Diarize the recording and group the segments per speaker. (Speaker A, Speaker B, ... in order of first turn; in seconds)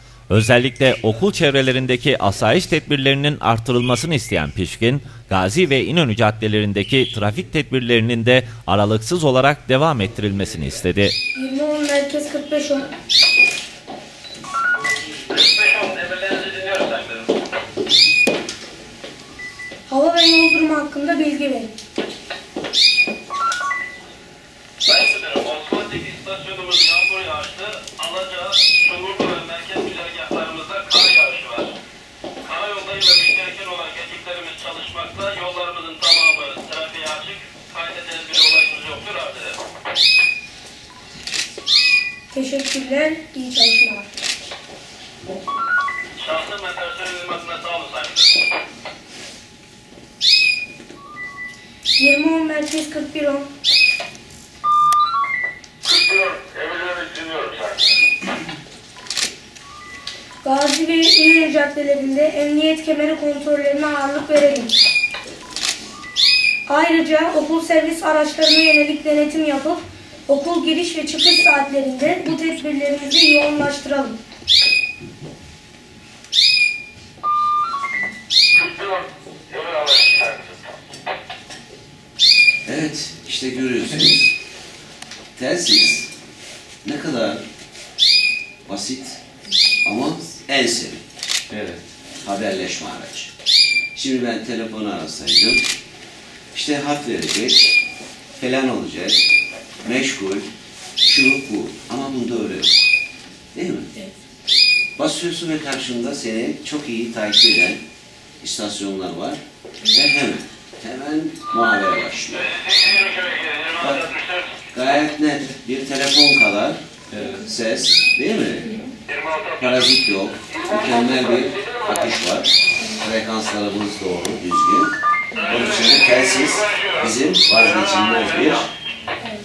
Speaker A: 0.3-11.2, 91.5-91.8
Speaker B: 11.3-12.9, 19.9-21.7, 42.3-44.1, 52.0-53.5, 60.4-64.7, 66.7-74.2
Speaker C: 15.3-17.3, 24.8-31.8, 32.4-39.6, 46.2-48.4, 55.9-57.9, 78.6-80.6, 112.4-114.5
Speaker D: 82.7-84.3, 85.4-86.1, 86.8-87.5, 88.7-89.2, 89.8-91.0, 92.2-93.3, 94.0-95.7, 96.5-97.8, 98.4-99.2, 99.8-100.5, 101.0-102.8, 103.5-103.9, 105.0-107.8, 108.4-112.5, 113.8-114.1, 114.7-118.9, 119.5-128.7